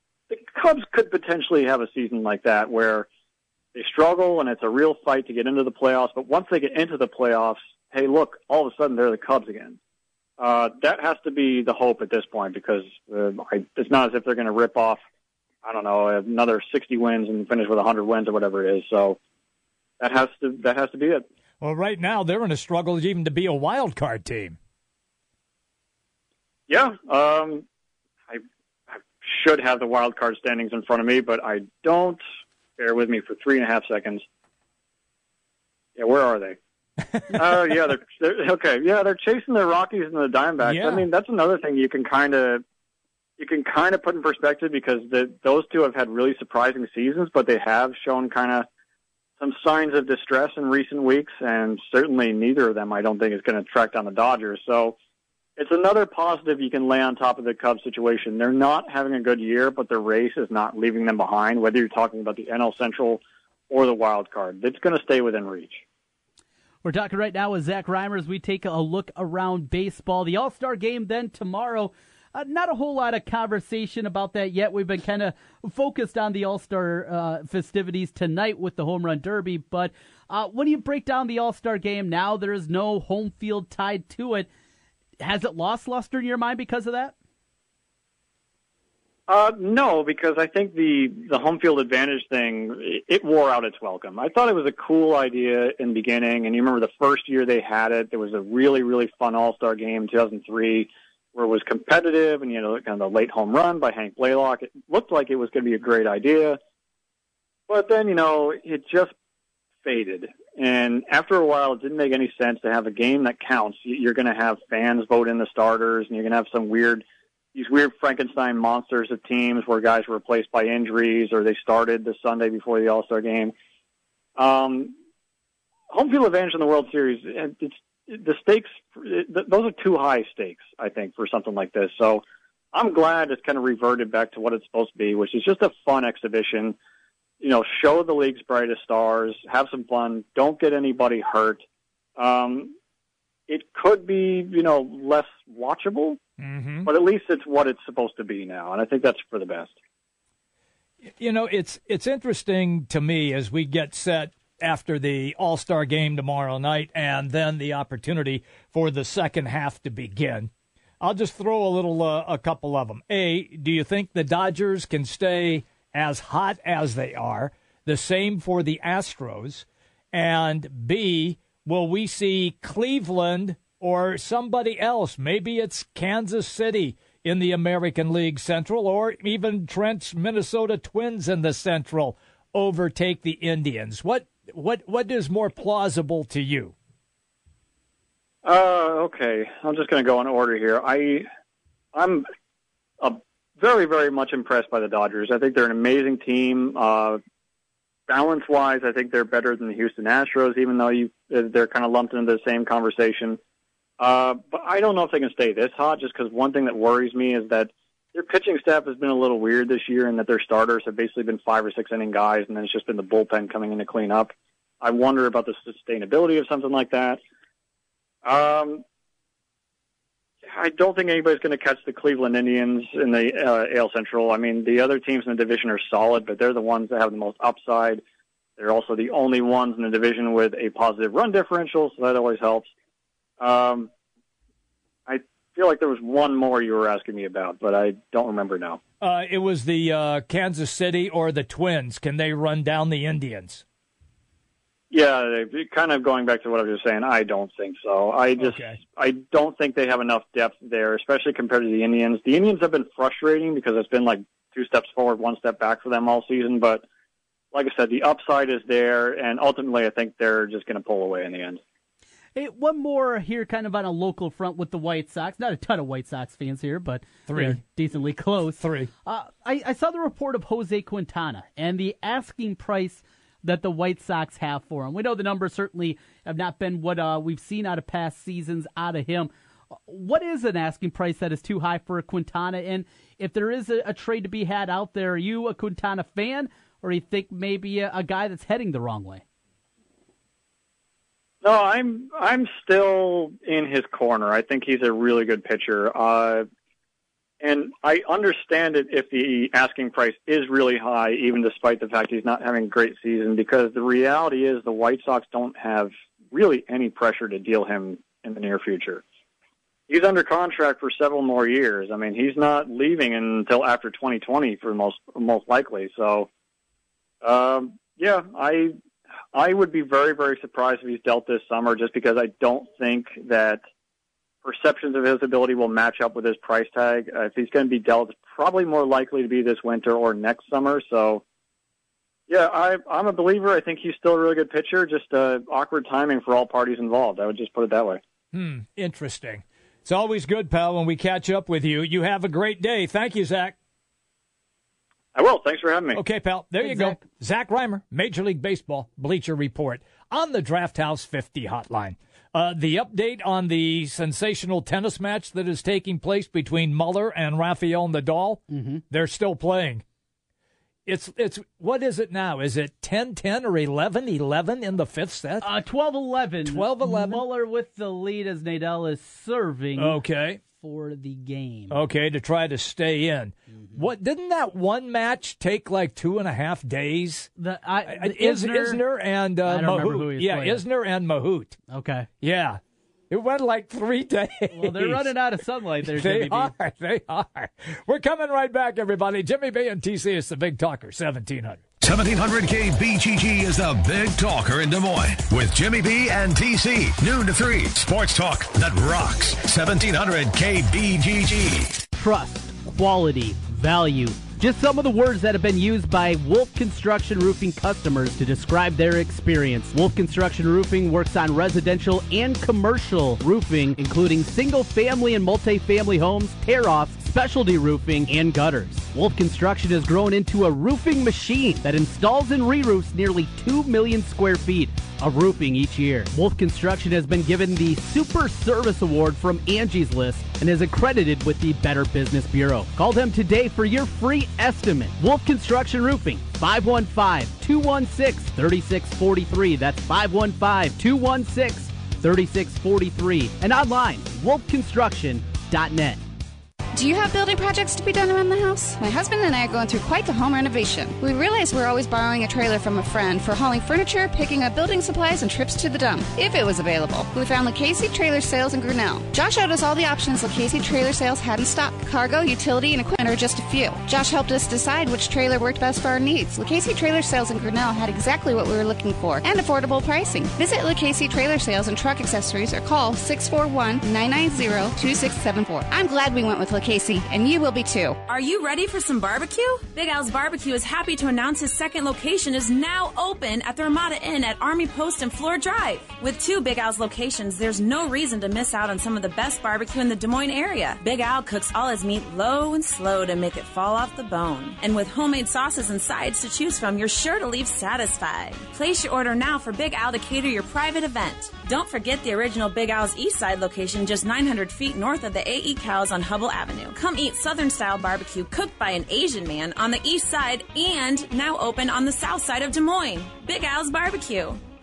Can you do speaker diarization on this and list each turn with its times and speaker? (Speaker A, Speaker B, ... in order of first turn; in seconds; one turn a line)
Speaker A: 0.3-3.1
Speaker A: 3.7-9.8
Speaker A: 10.4-15.0
Speaker A: 15.6-19.2
Speaker A: 20.0-21.2
Speaker B: 21.6-24.6
Speaker A: 26.7-27.6
Speaker A: 29.2-32.2
Speaker A: 32.8-34.2
Speaker A: 36.0-36.6
Speaker B: 37.1-37.4
Speaker A: 37.3-42.6
Speaker B: 40.6-41.0
Speaker A: 43.4-48.7
Speaker A: 49.4-55.0
Speaker A: 55.6-65.8
Speaker C: 66.8-84.5
Speaker C: 85.2-87.1
Speaker A: 89.3-106.6
Speaker A: 107.7-109.1
Speaker A: 109.8-117.0
Speaker A: 117.5-123.5
Speaker A: 124.3-124.9
Speaker A: 125.9-136.8
Speaker A: 137.4-141.6
Speaker A: 142.2-142.7
Speaker A: 143.5-146.2
Speaker B: 146.4-146.9
Speaker A: 146.8-149.7
Speaker B: 151.2-160.5
Speaker B: 161.0-186.7
Speaker A: 188.4-191.3
Speaker A: 191.9-192.2
Speaker A: 193.0-197.2
Speaker A: 198.1-203.4
Speaker A: 204.0-217.2
Speaker A: 218.2-218.8
Speaker A: 220.4-228.0
Speaker A: 228.6-232.7
Speaker A: 233.4-233.9
Speaker A: 235.1-238.8
Speaker B: 239.0-243.6
Speaker A: 244.9-256.8
Speaker B: 248.4-248.8
Speaker A: 257.5-261.6
Speaker C: 262.4-289.2
Speaker B: 267.3-267.6
Speaker B: 268.6-268.9
Speaker A: 291.4-296.5
Speaker A: 297.4-309.0
Speaker A: 309.9-316.3
Speaker A: 317.2-318.7
Speaker A: 319.3-323.6
Speaker A: 324.4-331.2
Speaker A: 332.3-338.0
Speaker B: 338.3-343.6
Speaker A: 345.1-346.0
Speaker B: 345.9-359.8
Speaker C: 346.6-347.0
Speaker C: 358.5-358.8
Speaker B: 360.9-365.5
Speaker C: 365.4-371.8
Speaker B: 366.4-367.2
Speaker B: 369.8-370.4
Speaker B: 371.7-377.3
Speaker C: 373.5-373.8
Speaker C: 377.4-378.8
Speaker B: 377.9-381.6
Speaker C: 379.4-380.6
Speaker C: 381.7-382.1
Speaker B: 382.2-385.1
Speaker C: 384.5-386.5
Speaker B: 385.9-391.6
Speaker D: 391.8-401.8
Speaker C: 401.9-446.0
Speaker E: 446.7-478.0
Speaker F: 478.1-514.4